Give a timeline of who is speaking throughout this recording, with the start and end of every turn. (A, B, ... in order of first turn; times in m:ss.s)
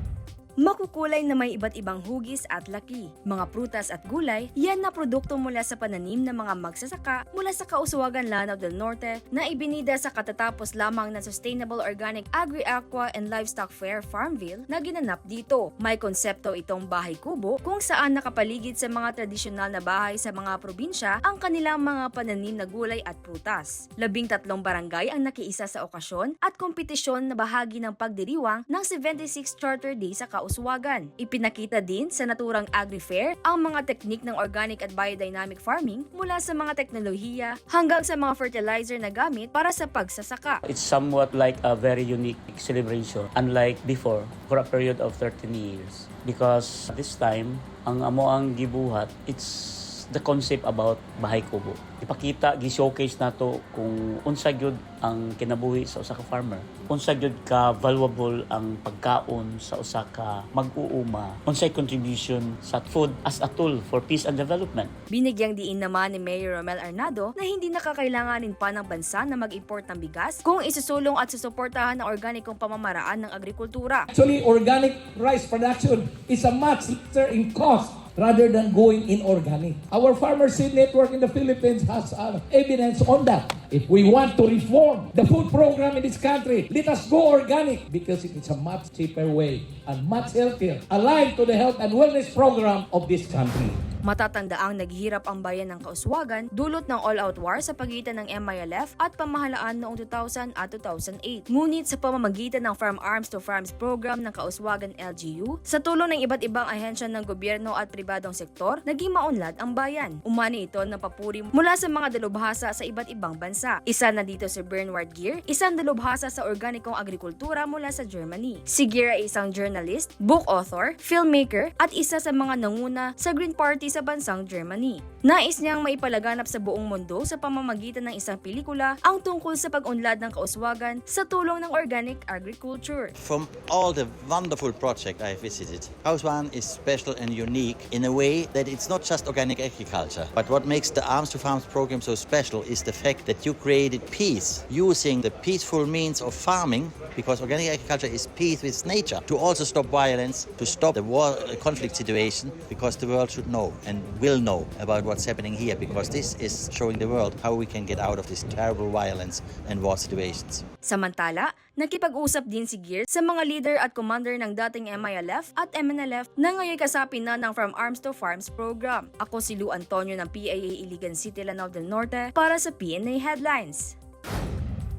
0:00.6-0:40.6 A
0:40.6-1:04.9 B
1:05.1-1:14.1 A
1:14.1-1:33.8 C
1:34.0-2:13.1 A
2:13.2-2:40.6 D
2:40.8-2:53.9 A